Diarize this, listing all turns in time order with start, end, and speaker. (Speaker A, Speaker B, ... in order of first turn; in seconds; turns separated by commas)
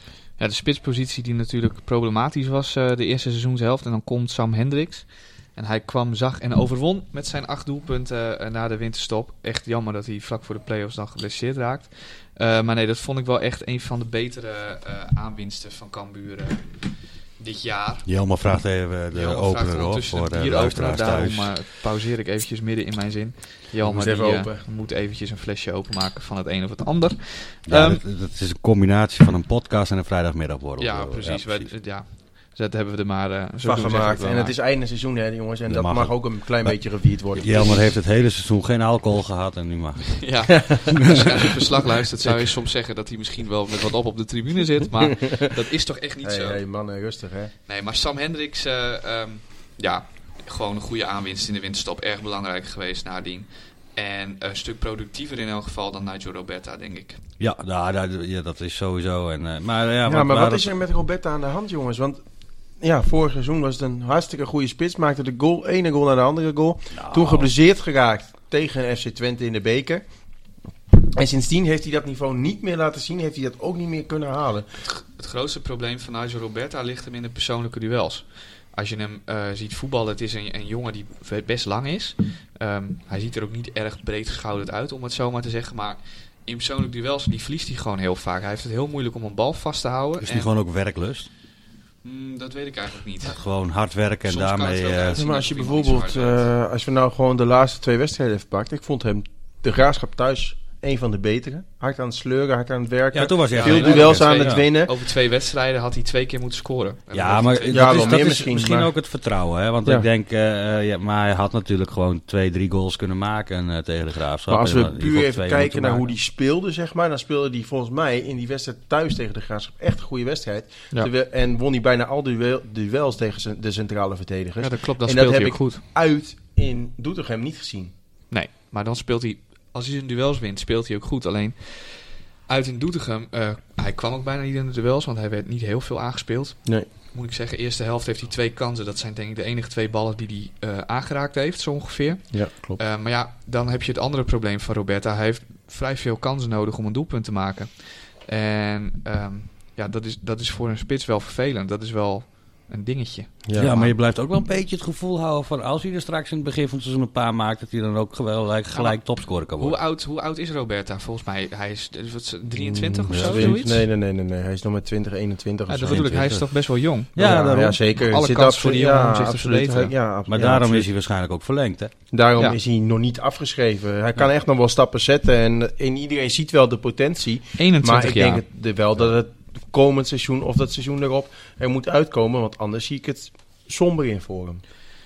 Speaker A: 0.4-18.1, Speaker B: 18.0-21.6, Speaker A: 19.1-28.0, Speaker C: 23.8-24.6, Speaker B: 27.6-31.7, Speaker A: 30.8-34.6, Speaker C: 33.6-37.8, Speaker B: 35.6-40.8, Speaker A: 37.5-37.8, Speaker A: 40.2-46.6, Speaker C: 40.7-41.1, Speaker C: 46.2-47.5, Speaker A: 47.6-57.2, Speaker B: 57.4-60.8, Speaker C: 60.1-70.0, Speaker B: 66.9-67.5, Speaker C: 70.9-74.7, Speaker A: 74.8-90.5, Speaker B: 90.2-91.3, Speaker A: 92.0-93.4, Speaker B: 93.2-95.2, Speaker A: 94.2-96.5, Speaker C: 95.1-104.9, Speaker B: 103.1-104.7, Speaker A: 103.5-108.3, Speaker B: 107.1-116.1, Speaker C: 107.7-108.9, Speaker C: 114.5-127.9, Speaker A: 124.6-125.8, Speaker A: 128.3-153.9, Speaker C: 142.3-142.8, Speaker C: 153.4-153.8, Speaker B: 153.5-159.8, Speaker A: 158.7-163.8, Speaker C: 162.5-166.2, Speaker B: 163.1-163.6, Speaker A: 165.7-169.9, Speaker B: 165.8-167.8, Speaker C: 167.2-170.9, Speaker B: 170.3-172.0, Speaker C: 172.1-184.6, Speaker A: 177.6-178.4